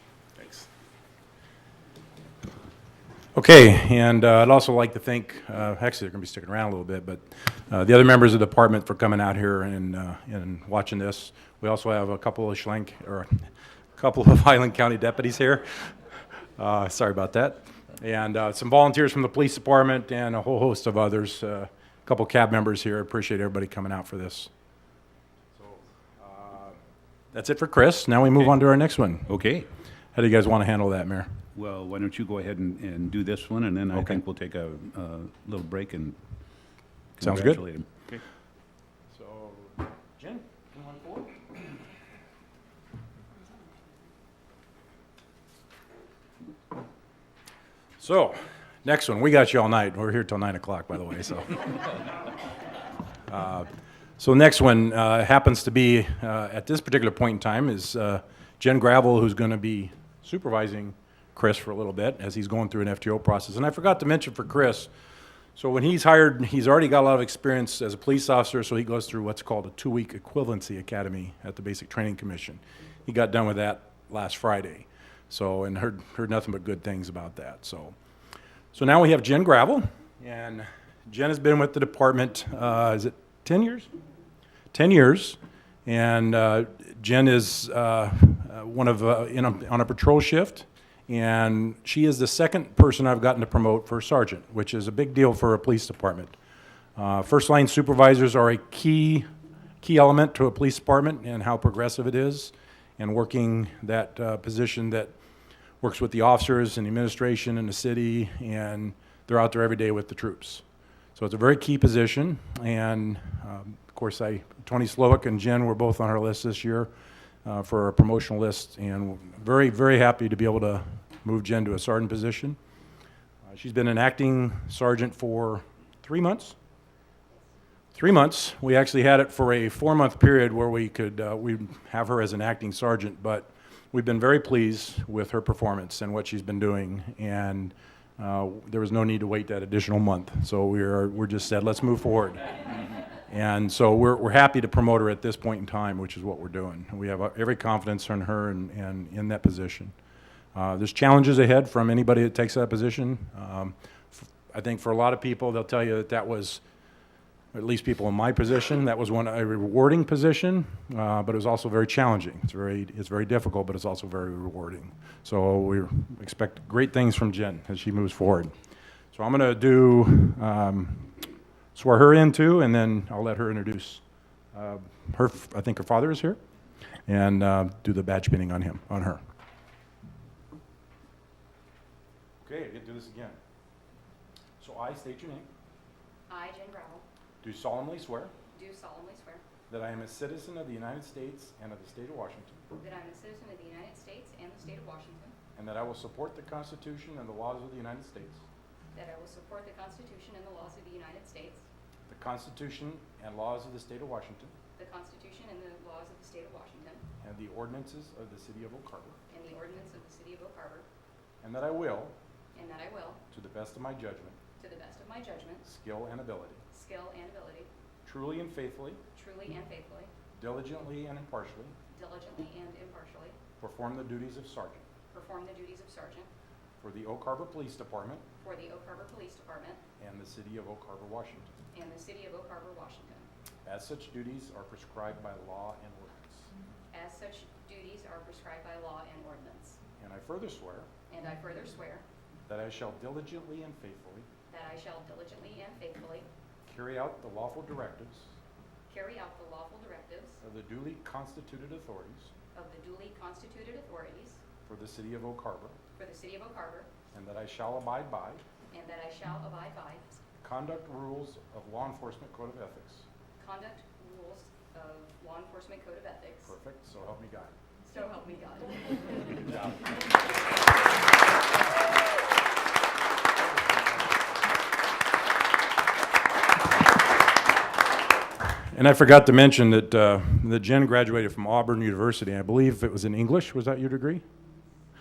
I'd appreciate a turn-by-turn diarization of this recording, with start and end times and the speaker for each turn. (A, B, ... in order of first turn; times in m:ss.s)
0:00.4-0:00.6 A
0:03.3-0:13.4 A
0:14.0-0:15.9 A
0:16.6-0:24.5 A
0:25.5-0:26.8 A
0:27.3-0:29.3 A
0:29.3-0:29.7 B
0:30.1-0:31.3 A
0:31.6-0:36.2 B
0:33.9-0:34.2 A
0:37.2-0:38.2 B
0:37.2-0:37.6 A
0:39.1-0:41.4 A
0:48.0-0:51.7 A
0:53.3-1:04.9 A
1:05.6-1:17.9 A
1:18.7-1:23.9 A
1:24.7-1:36.3 A
1:37.0-1:39.3 A
1:39.8-1:45.1 A
1:45.8-1:50.6 A
1:51.2-1:56.9 A
1:57.4-2:02.6 A
2:03.5-2:06.5 A
2:07.9-2:22.5 A
2:23.3-2:29.9 A
2:30.5-2:36.6 A
2:37.5-2:48.5 A
2:49.1-2:54.0 A
2:54.5-2:56.4 A
2:57.1-2:59.2 A
3:02.4-3:03.4 A
3:04.6-3:05.5 A
3:06.3-3:07.0 C
3:07.4-3:08.3 A
3:08.5-3:09.4 C
3:09.7-3:12.6 A
3:12.8-3:15.4 C
3:15.6-3:18.4 A
3:18.9-3:21.6 C
3:22.1-3:24.5 A
3:24.8-3:27.0 C
3:27.2-3:29.2 A
3:29.3-3:30.8 C
3:31.4-3:32.1 A
3:32.5-3:33.2 C
3:33.3-3:34.4 A
3:34.6-3:35.6 C
3:35.6-3:36.6 A
3:36.7-3:37.7 C
3:38.0-3:39.0 A
3:39.1-3:40.1 C
3:40.4-3:41.7 A
3:41.9-3:43.4 C
3:43.6-3:44.8 A
3:45.1-3:46.3 C
3:46.8-3:48.2 A
3:48.4-3:49.8 C
3:50.0-3:51.5 A
3:51.7-3:53.3 C
3:53.6-3:56.5 A
3:56.9-3:59.8 C
4:00.0-4:00.9 A
4:01.1-4:02.0 C
4:02.5-4:04.3 A
4:04.5-4:06.3 C
4:06.7-4:08.3 A
4:08.9-4:10.4 C
4:10.4-4:12.3 A
4:12.5-4:14.4 C
4:14.6-4:15.8 A
4:16.0-4:16.9 C
4:17.1-4:18.4 A
4:18.7-4:20.0 C
4:20.4-4:23.0 A
4:23.4-4:26.5 C
4:26.4-4:27.5 A
4:27.8-4:29.5 C
4:38.7-4:44.2 A